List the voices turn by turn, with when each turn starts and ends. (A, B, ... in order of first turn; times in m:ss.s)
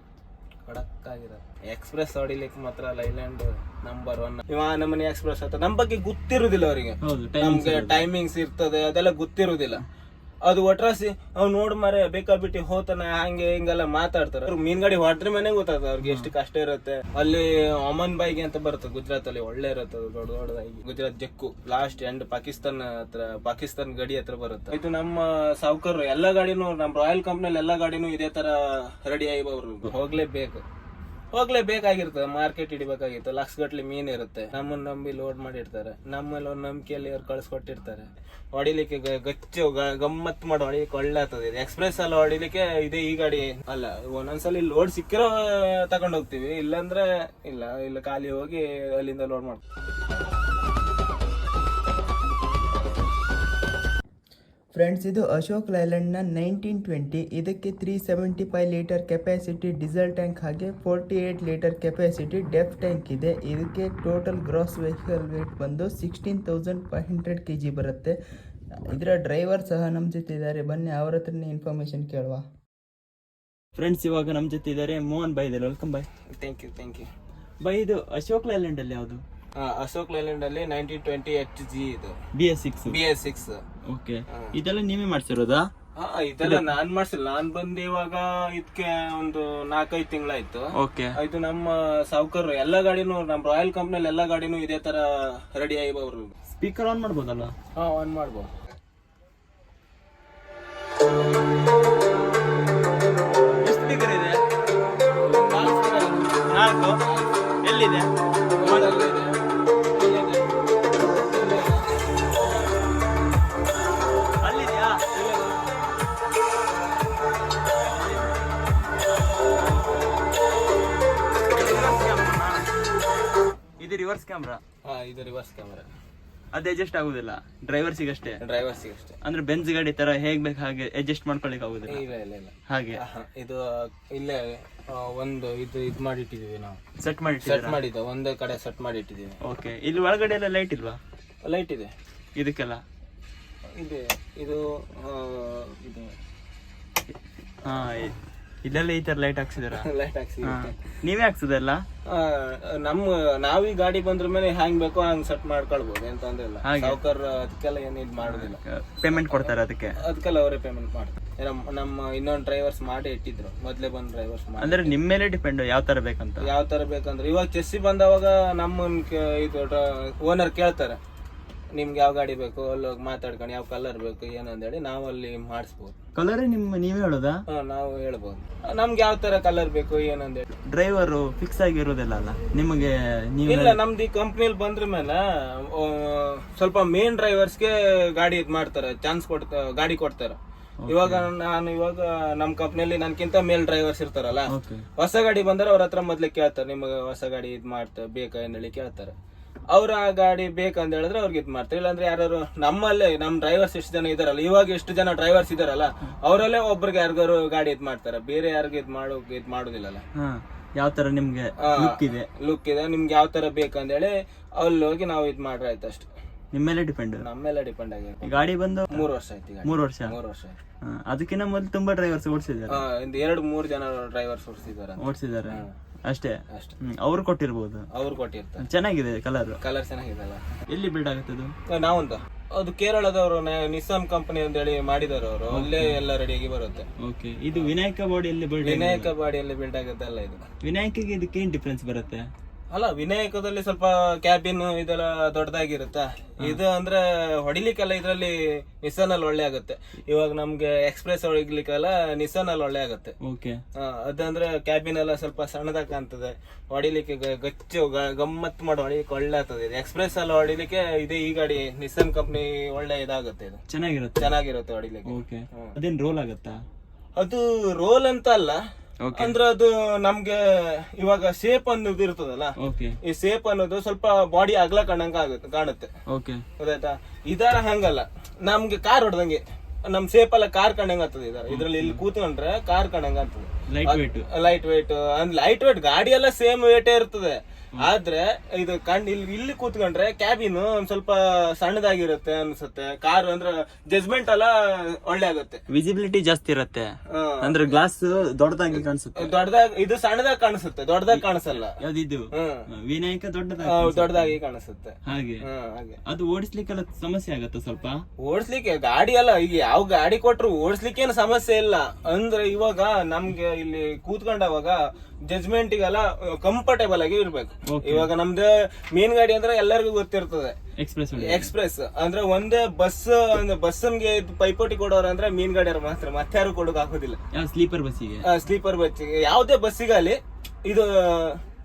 0:00.7-0:09.8 A
0:07.0-0:08.1 B
0:10.4-0:30.6 A
0:16.0-0:16.3 B
0:31.3-0:49.6 A
0:54.7-1:08.2 C
1:08.9-1:12.4 C
1:13.8-1:16.1 B
1:16.4-1:17.1 A
1:17.6-1:19.2 B
1:19.6-1:22.2 A
1:22.4-1:23.0 B
1:22.9-1:23.6 A
1:23.9-1:25.7 B
1:26.0-1:36.3 A
1:26.4-1:26.7 B
1:30.8-1:31.2 B
1:36.5-1:37.5 B
1:37.8-1:38.5 A
1:43.6-1:44.4 B
1:45.2-1:47.5 A
1:46.5-1:47.0 B
1:47.6-1:48.1 B
1:48.5-1:49.4 A
1:48.6-1:49.1 B
1:49.9-1:51.9 A
1:54.4-1:55.0 B
1:55.1-1:55.6 A
1:57.8-1:58.4 B
2:01.6-2:02.7 B
2:03.8-2:04.6 B
2:04.8-2:05.9 A
2:06.5-2:08.4 B
2:08.4-2:09.2 A
2:09.2-2:12.1 B
2:11.9-2:16.8 A
2:12.7-2:13.0 B
2:17.0-2:17.8 B
2:17.4-2:19.4 A
2:19.4-2:21.0 B
2:21.4-2:21.9 A
2:22.4-2:22.8 B
2:23.8-2:26.2 A
2:27.1-2:29.9 B
2:29.7-2:31.0 A
2:30.4-2:31.8 B
2:32.1-2:45.0 A
2:36.6-2:37.0 B
2:38.2-2:40.0 B
2:44.6-2:46.5 B
2:46.4-2:51.0 A
2:51.8-2:56.0 A
2:56.2-2:57.4 B
2:57.5-3:00.4 A
3:00.7-3:03.8 B
3:03.5-3:19.1 A
3:10.8-3:11.3 B
3:14.5-3:14.8 B
3:19.7-3:30.0 A
3:30.2-3:32.3 B
3:31.6-3:36.1 A
3:36.5-3:37.2 B
3:37.2-3:40.6 A
3:38.2-3:39.0 B
3:39.6-3:40.2 B
3:40.9-3:42.8 B
3:42.7-3:45.7 A
3:45.0-3:47.9 B
3:46.5-3:46.8 A
3:47.9-3:48.6 A
3:48.6-3:49.6 B
3:49.6-3:50.5 A
3:50.7-3:51.5 B
3:51.7-3:56.9 A
3:55.5-3:56.0 B
3:57.0-3:59.1 B
3:58.6-4:00.4 A
4:00.6-4:02.3 B
4:02.7-4:13.2 A
4:13.2-4:13.6 B
4:13.8-4:23.6 A
4:23.7-4:24.3 B
4:24.2-4:25.7 A
4:25.1-4:26.6 B
4:27.2-4:28.6 A
4:29.0-4:29.3 B
4:29.2-4:35.9 A
4:32.6-4:33.0 B
4:36.1-4:36.4 B
4:36.6-4:55.6 A
4:41.5-4:42.0 B
4:43.7-4:44.3 B
4:55.7-4:56.9 B
4:57.1-4:57.8 A
4:57.4-4:59.3 B
4:58.7-5:01.8 A
5:01.1-5:04.4 B
5:02.3-5:02.7 A
5:03.6-5:06.0 A
5:05.1-5:05.4 B
5:06.0-5:08.0 B
5:08.2-5:20.6 A
5:17.7-5:18.1 B
5:20.8-5:21.5 B
5:21.2-5:27.2 A
5:27.3-5:28.2 B
5:28.2-5:31.4 A